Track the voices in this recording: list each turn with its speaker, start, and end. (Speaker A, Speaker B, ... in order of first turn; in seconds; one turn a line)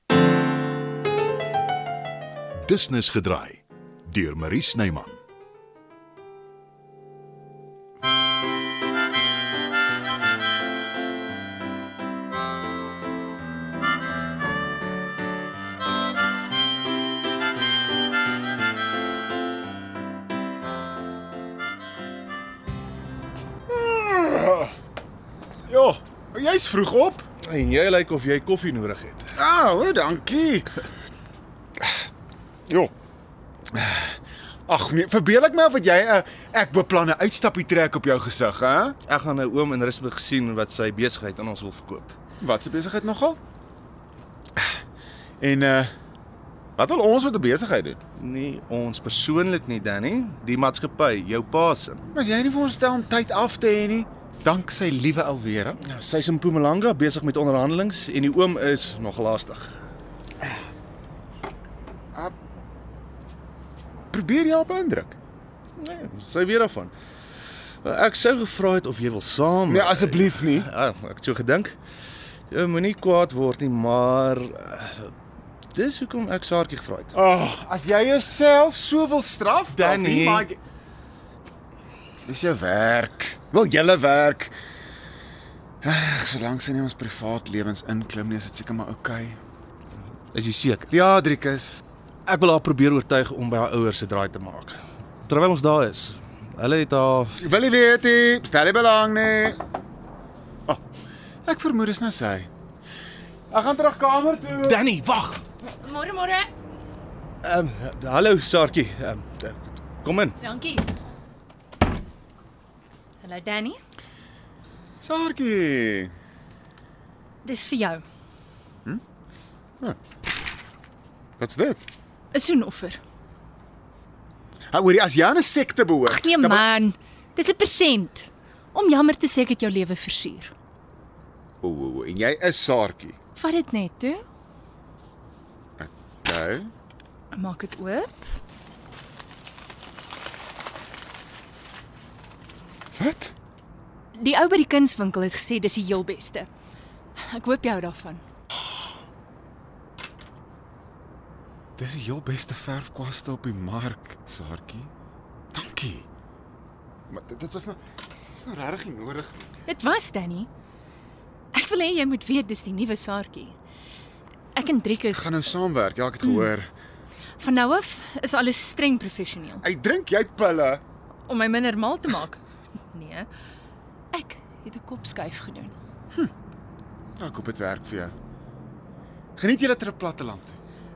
Speaker A: 2.6-5.2
Speaker B: 25.7-27.2
Speaker C: 27.4-29.3
Speaker B: 29.3-30.9
Speaker B: 32.7-32.9
Speaker B: 33.7-39.0
Speaker C: 39.1-42.1
Speaker B: 42.4-43.4
Speaker B: 45.4-45.9
Speaker B: 46.8-48.0
Speaker C: 48.2-52.0
Speaker B: 52.1-55.8
Speaker C: 55.8-59.8
Speaker B: 64.1-65.2
Speaker C: 65.8-66.9
Speaker C: 67.8-71.8
Speaker B: 69.7-70.7
Speaker C: 72.5-75.1
Speaker C: 75.7-77.1
Speaker B: 77.1-80.6
Speaker C: 79.7-80.5
Speaker B: 82.2-84.5
Speaker B: 85.8-89.4
Speaker C: 90.3-90.9
Speaker B: 90.9-91.8
Speaker C: 92.3-97.4
Speaker B: 97.4-99.6
Speaker B: 101.5-102.5
Speaker B: 103.5-104.8
Speaker C: 104.6-105.5
Speaker D: 105.8-106.5
Speaker C: 107.4-110.4
Speaker D: 110.4-110.9
Speaker D: 113.2-113.8
Speaker B: 115.0-116.1
Speaker D: 117.4-118.0
Speaker B: 121.4-121.9
Speaker D: 122.3-123.0
Speaker B: 124.7-126.6
Speaker D: 126.1-130.5
Speaker B: 131.6-133.2
Speaker D: 133.4-134.2
Speaker B: 135.8-136.7
Speaker D: 137.3-138.3
Speaker B: 142.9-143.3
Speaker D: 144.1-146.5
Speaker D: 147.2-148.2
Speaker B: 151.8-154.9
Speaker B: 155.5-156.1
Speaker B: 157.1-157.8
Speaker B: 158.4-159.6
Speaker D: 159.7-160.5
Speaker D: 161.5-163.6
Speaker D: 164.6-165.3
Speaker B: 165.1-166.7
Speaker D: 166.2-166.5
Speaker D: 167.4-169.6
Speaker B: 169.6-170.8
Speaker D: 171.3-172.4
Speaker D: 172.9-173.3
Speaker D: 174.1-175.8
Speaker B: 177.2-178.2
Speaker B: 179.4-180.6